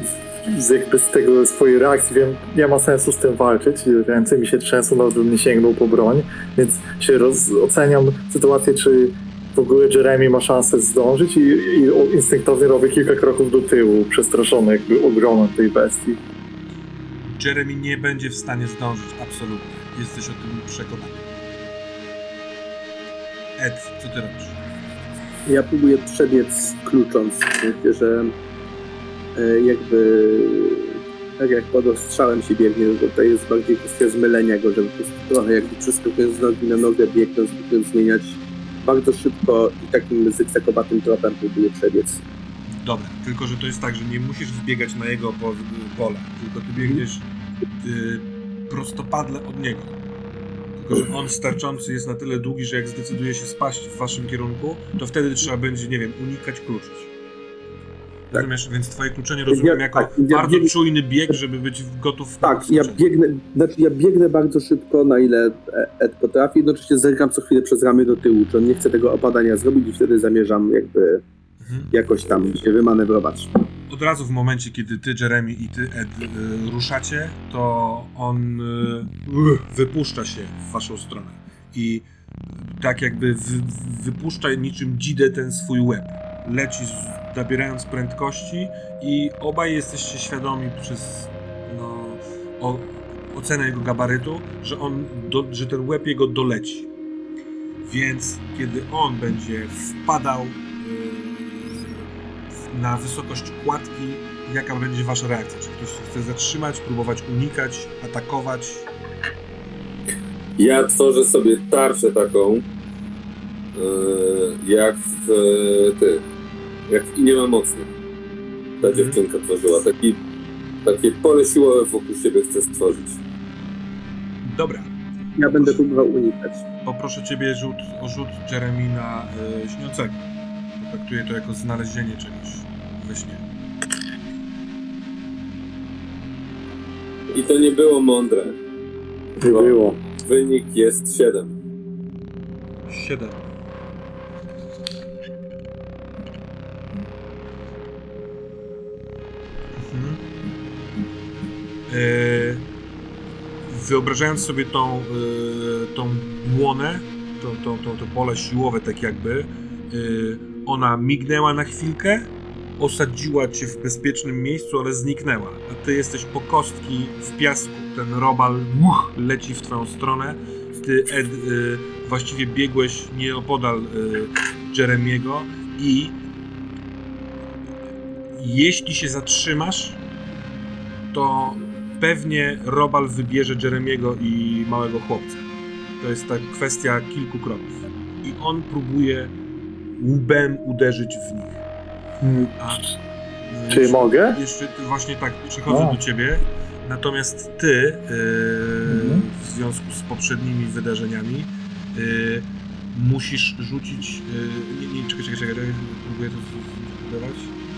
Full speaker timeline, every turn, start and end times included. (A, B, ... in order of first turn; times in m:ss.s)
0:00.4-0:16.2 A
0:17.2-0:21.3 B
0:23.6-0:24.6 B
0:25.4-0:28.3 C
0:29.4-0:42.2 C
0:42.7-0:47.2 B
0:47.8-0:50.0 B
0:50.8-0:57.1 B
0:58.3-1:03.0 B
0:59.5-1:00.7 C
1:02.4-1:11.2 C
1:11.6-1:11.9 B
1:11.9-1:13.7 C
1:13.9-1:36.9 B
1:37.8-1:42.1 B
1:42.6-1:48.8 B
1:50.6-1:52.6 D
1:53.7-1:56.2 D
1:56.9-1:57.9 D
1:58.8-1:59.2 B
1:58.8-2:00.2 D
2:00.8-2:03.2 D
2:04.4-2:04.9 B
2:05.4-2:06.6 C
2:05.5-2:05.8 B
2:06.8-2:10.2 B
2:10.8-2:13.4 B
2:17.3-2:18.6 D
2:19.4-2:20.0 A
2:19.4-2:21.5 D
2:22.9-2:23.5 B
2:29.7-2:30.2 B
2:31.9-2:32.6 B
2:33.7-2:56.2 B
2:58.3-3:00.0 B
3:01.1-3:05.4 B
3:06.0-3:09.3 B
3:10.0-3:11.6 B
3:12.2-3:13.0 A
3:12.6-3:12.9 B
3:13.4-3:27.5 B
3:13.7-3:14.4 A
3:15.7-3:16.0 A
3:18.8-3:19.2 A